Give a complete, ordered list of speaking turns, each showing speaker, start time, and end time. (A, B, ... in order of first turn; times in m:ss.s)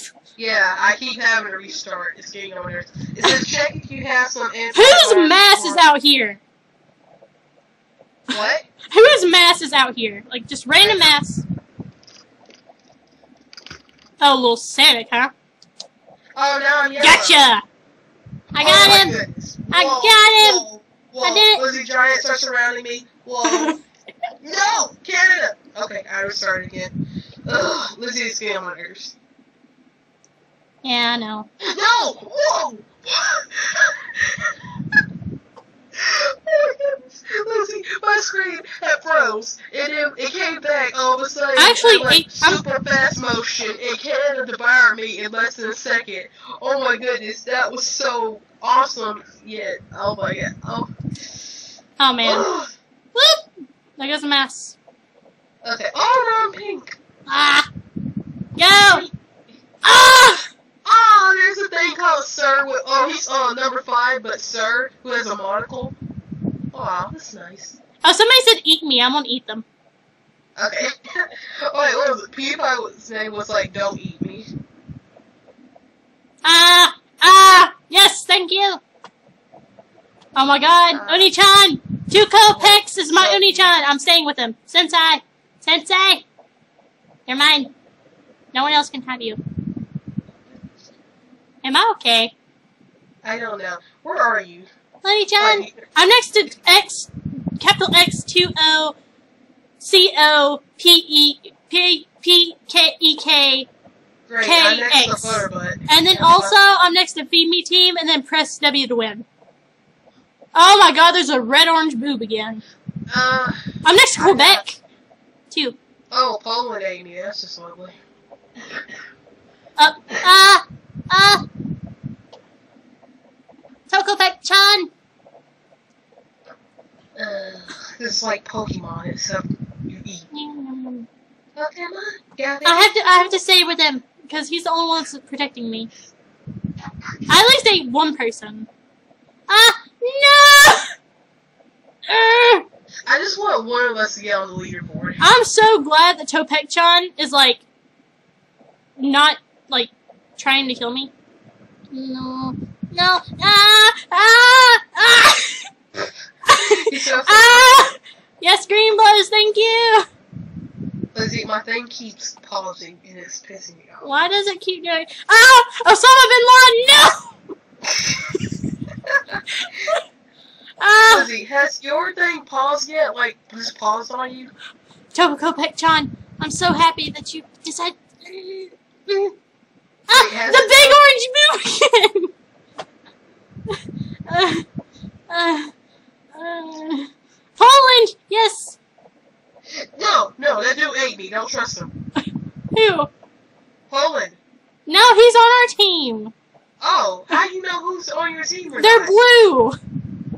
0:00.4-0:05.8 A
0:04.7-0:06.4 B
0:08.3-0:08.6 A
0:08.9-0:11.4 B
0:10.8-0:11.2 A
0:14.2-0:15.3 B
0:16.4-0:17.5 A
0:17.0-0:17.6 B
0:18.5-0:20.6 B
0:18.6-0:23.8 A
0:21.2-0:21.6 B
0:23.4-0:23.8 B
0:24.4-0:27.0 A
0:27.5-0:29.2 A
0:30.8-0:31.5 B
0:31.6-0:34.5 A
0:36.0-0:50.9 A
0:41.6-0:42.6 B
0:52.0-0:52.5 B
0:52.2-0:52.7 A
0:53.1-0:54.8 B
0:55.6-0:57.0 A
0:57.3-0:57.7 B
0:58.6-0:59.1 B
0:58.6-0:59.1 A
0:59.8-1:00.5 B
1:00.8-1:06.0 A
1:06.7-1:07.8 A
1:08.0-1:09.6 B
1:10.6-1:14.5 A
1:16.4-1:18.8 B
1:20.4-1:26.2 B
1:20.9-1:21.3 A
1:22.5-1:23.7 A
1:27.3-1:27.7 B
1:28.5-1:29.4 B
1:31.6-1:32.3 B
1:33.2-1:34.7 A
1:35.0-1:39.0 B
1:35.4-1:35.9 A
1:39.8-1:43.7 B
1:44.3-1:46.6 A
1:44.4-1:49.3 B
1:50.5-1:52.6 B
1:53.1-1:54.6 A
1:53.8-1:54.8 B
1:55.5-1:55.8 B
1:56.1-1:58.0 A
1:59.8-2:01.4 B
2:03.9-2:04.9 B
2:07.2-2:10.3 A
2:10.3-2:11.1 B
2:11.6-2:13.4 A
2:12.6-2:15.9 B
2:17.3-2:18.7 B
2:19.5-2:20.9 B
2:22.1-2:22.6 B
2:23.1-2:25.2 A
2:25.2-2:27.6 B
2:29.0-2:31.1 B
2:31.9-2:35.7 B
2:36.5-2:40.0 B
2:36.6-2:37.8 A
2:41.1-2:44.1 A
2:44.0-2:47.4 B
2:49.1-2:49.4 A
2:49.5-2:50.0 B
2:50.8-2:51.3 B
2:51.1-2:54.5 A
2:55.1-2:58.7 B
3:00.1-3:02.3 B
3:00.1-3:01.0 A
3:04.3-3:04.6 B
3:05.3-3:05.7 B
3:06.3-3:08.8 B
3:09.8-3:11.9 A
3:12.2-3:13.1 B
3:13.9-3:14.4 A
3:14.9-3:16.3 B
3:16.8-3:19.2 A
3:18.8-3:19.8 B